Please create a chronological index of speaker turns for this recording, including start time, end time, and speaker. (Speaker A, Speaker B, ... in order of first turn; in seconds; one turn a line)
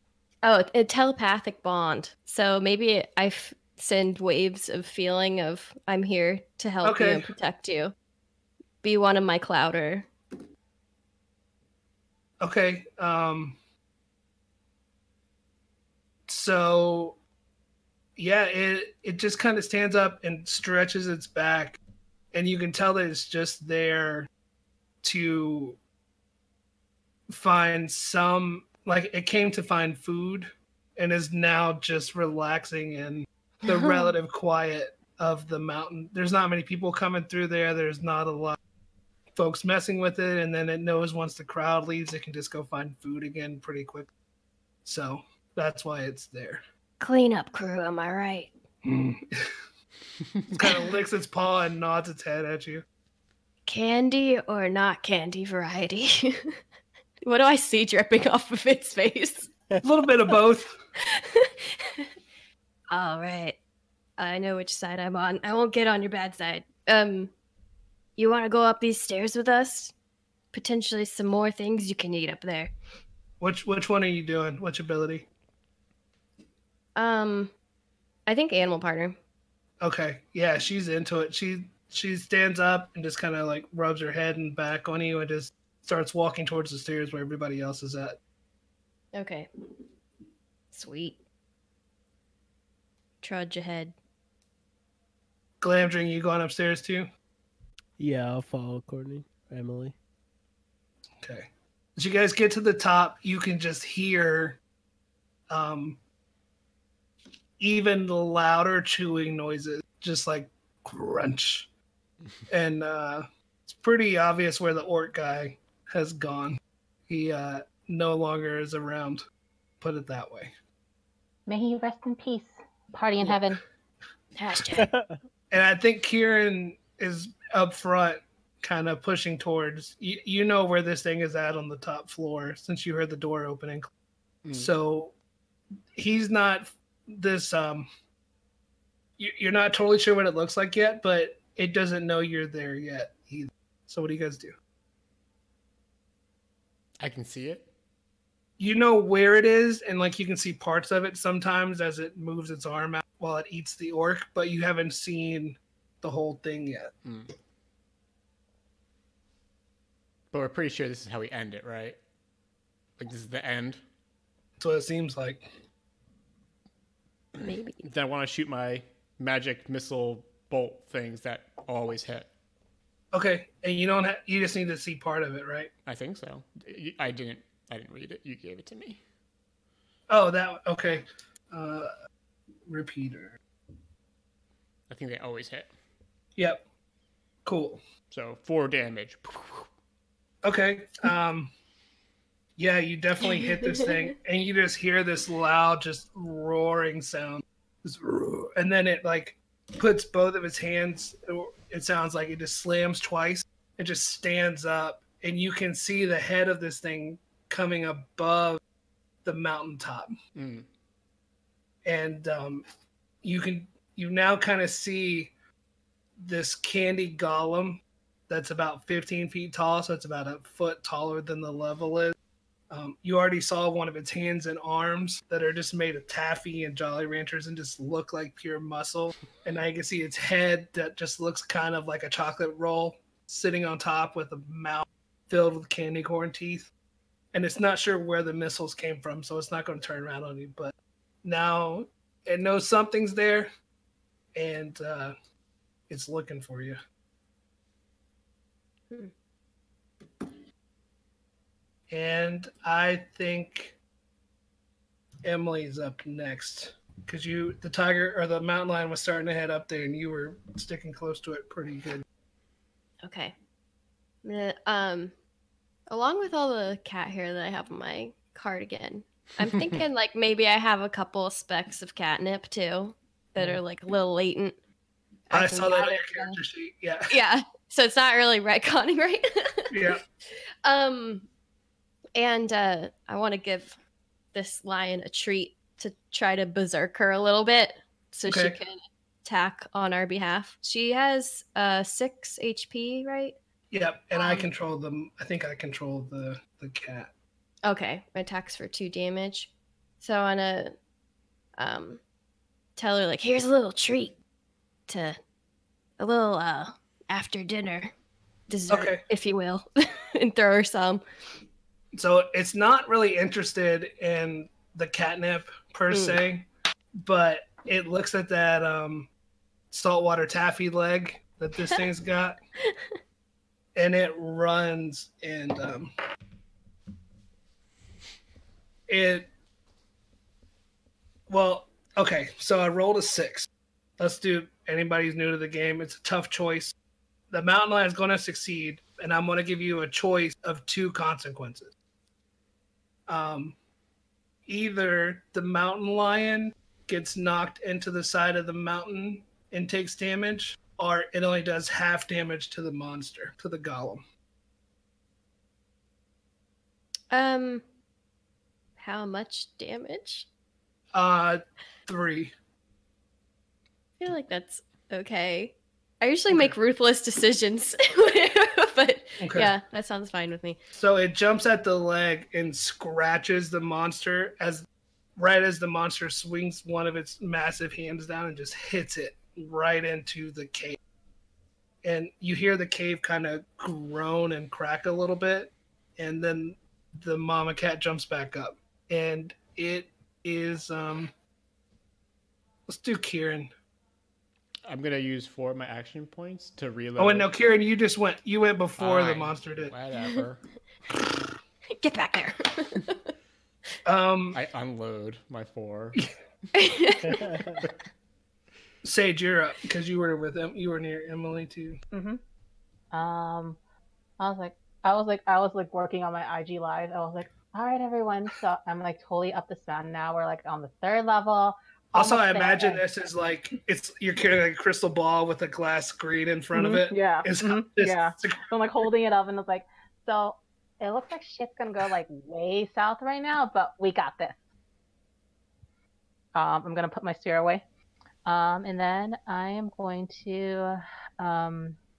Speaker A: 0.4-7.9
Speaker B: 6.8-7.3
Speaker A: 8.8-10.1
Speaker B: 12.4-13.6
Speaker B: 16.3-17.2
Speaker B: 18.2-21.8
Speaker B: 22.3-24.3
Speaker B: 25.0-25.8
Speaker B: 27.3-38.6
Speaker A: 33.7-34.1
Speaker B: 39.4-44.1
Speaker B: 44.9-46.6
Speaker A: 47.0-48.5
Speaker B: 48.8-49.5
Speaker B: 50.5-52.9
Speaker A: 53.7-56.6
Speaker A: 57.2-59.5
Speaker B: 59.8-60.8
Speaker A: 61.0-62.1
Speaker A: 62.9-63.6
Speaker A: 64.2-67.3
Speaker A: 68.2-69.9
Speaker A: 70.5-72.7
Speaker B: 73.4-75.3
Speaker A: 77.0-77.5
Speaker A: 78.3-79.2
Speaker B: 79.8-88.2
Speaker A: 89.1-89.5
Speaker A: 90.7-91.2
Speaker A: 93.2-94.0
Speaker B: 95.6-97.1
Speaker C: 98.0-100.0
Speaker B: 101.2-104.6
Speaker B: 105.5-106.0
Speaker B: 107.6-111.7
Speaker B: 112.5-119.2
Speaker B: 119.8-120.5
Speaker D: 121.5-123.6
Speaker A: 124.4-124.9
Speaker C: 124.7-125.2
Speaker B: 125.5-133.9
Speaker E: 134.4-134.7
Speaker B: 134.5-135.2
Speaker B: 135.9-137.9
Speaker B: 139.2-144.6
Speaker E: 147.0-147.7
Speaker B: 148.6-156.9
Speaker E: 157.1-157.3
Speaker E: 160.3-162.0
Speaker E: 163.0-163.8
Speaker B: 164.6-165.4
Speaker A: 167.4-167.8
Speaker E: 167.8-172.3
Speaker B: 173.1-175.7
Speaker E: 175.9-179.0
Speaker B: 180.1-181.9
Speaker B: 182.7-183.4
Speaker E: 184.9-185.7
Speaker B: 186.4-186.6
Speaker B: 187.4-187.8
Speaker E: 188.1-189.7
Speaker B: 190.4-191.5
Speaker B: 192.6-208.6
Speaker A: 193.2-194.0
Speaker B: 209.2-210.2
Speaker E: 210.4-210.7
Speaker B: 211.8-212.7
Speaker B: 213.2-215.3
Speaker B: 216.2-222.2
Speaker B: 222.7-236.7
Speaker B: 237.3-243.5
Speaker B: 244.3-245.1
Speaker B: 245.9-246.8
Speaker B: 251.9-253.8
Speaker B: 255.2-262.0
Speaker A: 263.0-263.3
Speaker A: 264.2-265.1
Speaker A: 265.9-274.6
Speaker A: 275.3-276.4
Speaker B: 275.3-277.2
Speaker A: 277.1-281.3
Speaker B: 279.7-280.0
Speaker A: 282.2-283.8
Speaker A: 284.3-293.4
Speaker B: 288.3-288.6
Speaker B: 293.7-297.1
Speaker A: 294.1-294.5
Speaker A: 297.6-300.8
Speaker A: 301.6-302.0
Speaker A: 302.8-304.2
Speaker A: 304.9-305.2
Speaker A: 306.0-307.9
Speaker A: 308.5-311.0
Speaker B: 308.7-309.0
Speaker B: 311.9-316.5
Speaker A: 315.9-316.2
Speaker B: 317.0-319.1
Speaker B: 319.7-322.4
Speaker B: 323.8-325.9
Speaker B: 328.9-329.3
Speaker B: 331.3-333.5
Speaker B: 334.0-336.8
Speaker B: 337.3-341.7
Speaker B: 343.1-343.6
Speaker B: 344.5-354.0
Speaker A: 357.1-357.6
Speaker A: 358.8-360.3
Speaker B: 360.9-362.3
Speaker A: 364.0-370.6
Speaker B: 369.2-369.5
Speaker B: 370.7-374.6
Speaker B: 375.2-380.8
Speaker B: 381.8-391.1
Speaker B: 392.7-393.5
Speaker E: 394.7-397.3
Speaker B: 397.0-399.7
Speaker E: 398.8-400.4
Speaker A: 400.0-400.2
Speaker A: 401.7-403.1
Speaker B: 403.9-404.4
Speaker E: 404.3-406.1
Speaker A: 406.6-407.3
Speaker B: 408.8-411.8
Speaker D: 411.9-412.2
Speaker D: 412.9-413.6
Speaker D: 414.2-422.8
Speaker B: 421.9-428.5
Speaker D: 426.5-434.4
Speaker D: 436.4-437.6
Speaker D: 438.3-441.8